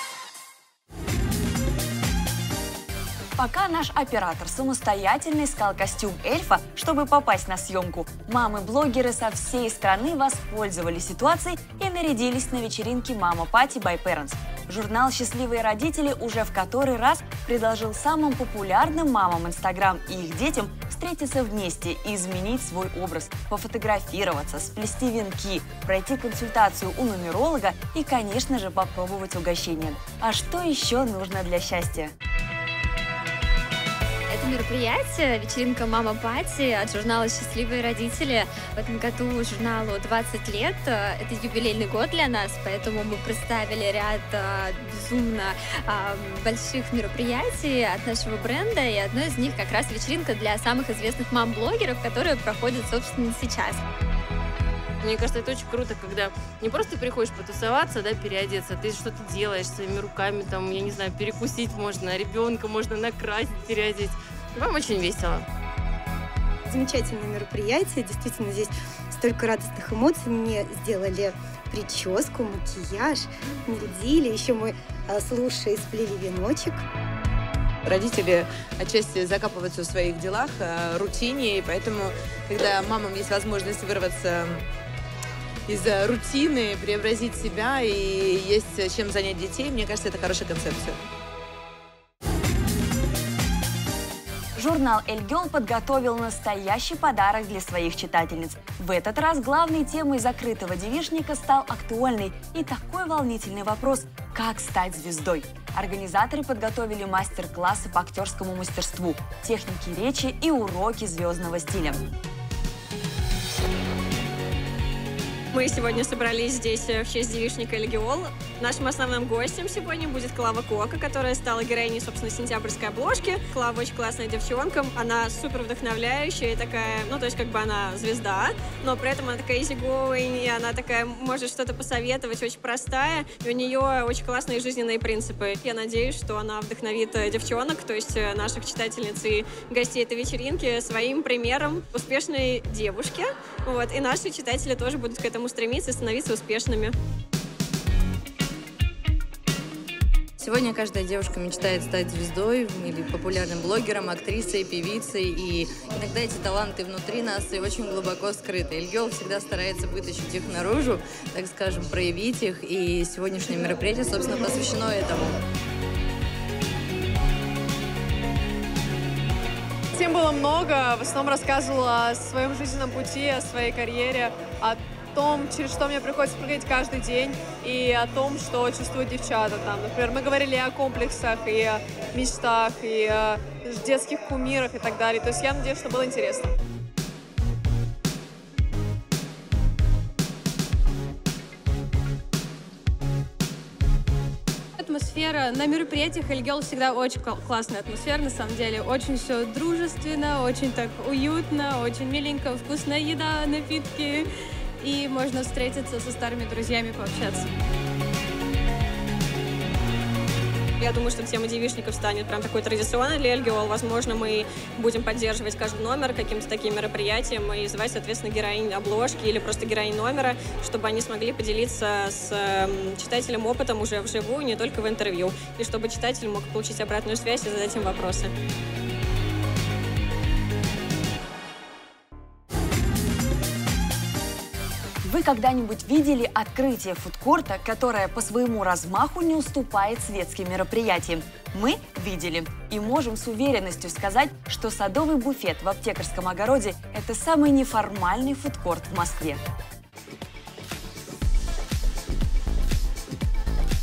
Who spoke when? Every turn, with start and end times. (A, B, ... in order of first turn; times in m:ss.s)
0:03.4-0:32.1 A
0:34.3-0:53.8 B
0:55.0-1:05.4 C
1:06.7-1:16.8 D
1:17.9-1:24.6 E
1:25.7-1:31.0 E
1:34.6-1:52.0 A
1:55.5-2:27.0 F
2:30.4-2:45.3 G
2:50.0-3:06.5 H
3:14.8-3:24.3 I
3:24.8-3:27.5 I
3:30.8-3:48.3 F
3:55.0-4:09.4 A